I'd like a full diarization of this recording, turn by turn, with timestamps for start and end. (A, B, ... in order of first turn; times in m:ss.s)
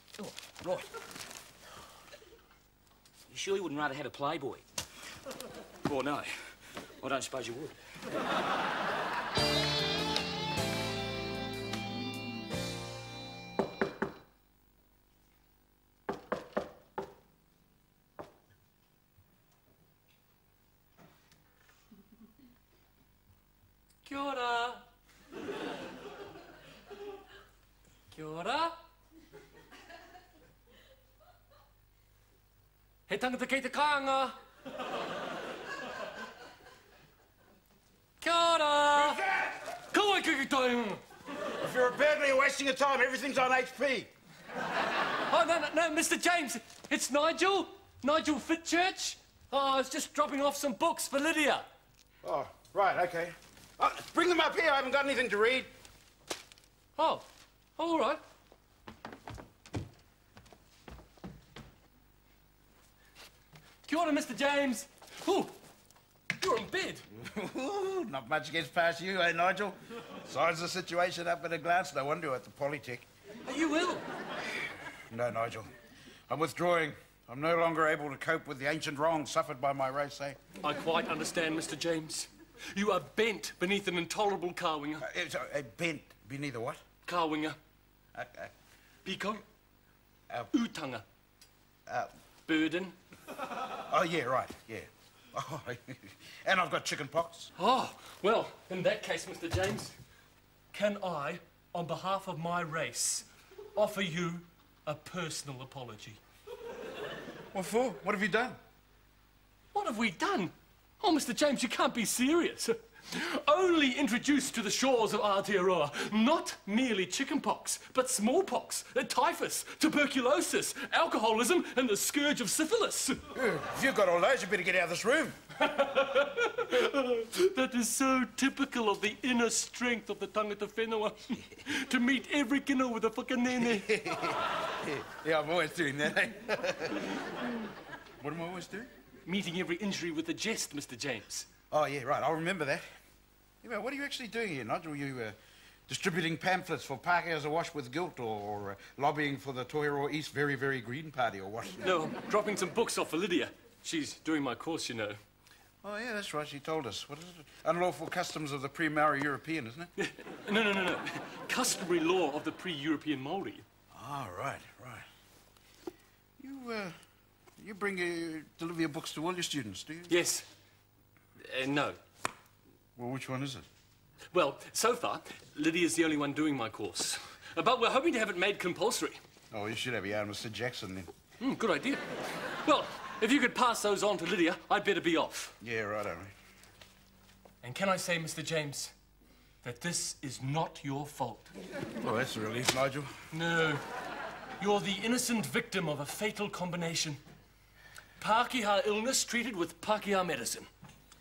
0:00.2-0:00.9 A
0:03.3-0:04.6 A
0:05.8-0:07.8 A
0:24.0-0:24.8 B
0:28.1-0:28.8 B
0:33.1-0:34.4 B
0:38.2-0:39.2 B
0:39.9-0:41.0 B
0:41.6-0:44.1 C
0:45.3-0:51.7 B
0:52.2-0:55.7 C
0:57.0-0:57.2 B
0:57.8-0:58.2 B
1:03.9-1:05.6 B
1:06.4-1:07.1 B
1:07.1-1:13.1 C
1:13.4-1:14.0 B
1:15.1-1:15.7 C
1:16.3-1:20.4 C
1:20.6-1:25.0 B
1:25.0-1:26.8 C
1:27.1-1:27.6 B
1:28.1-1:28.5 C
1:29.0-1:29.4 B
1:30.5-1:31.0 B
1:31.9-1:32.1 C
1:32.5-1:33.0 B
1:33.9-1:37.5 C
1:37.6-1:40.0 B
1:40.7-1:43.2 B
1:43.8-1:46.2 B
1:47.5-1:48.6 C
1:49.7-2:03.3 B
2:03.3-2:05.4 C
2:05.6-2:14.0 B
2:13.6-2:17.3 C
2:18.2-2:18.9 C
2:19.3-2:21.5 B
2:21.7-2:22.9 C
2:23.6-2:25.4 C
2:25.9-2:31.9 C
2:31.8-2:35.2 B
2:35.8-2:39.9 C
2:40.0-2:43.6 B
2:43.9-2:45.1 C
2:46.4-2:47.0 C
2:47.6-2:50.2 C
2:50.1-2:50.5 B
2:51.4-2:52.0 B
2:53.0-2:53.7 C
2:54.3-2:59.2 B
2:59.5-3:01.1 C
3:01.4-3:05.5 B
3:05.6-3:06.3 C
3:07.6-3:08.9 B
3:09.6-3:11.5 B
3:12.0-3:13.2 C
3:13.3-3:13.8 B
3:14.6-3:17.2 B
3:18.2-3:20.7 B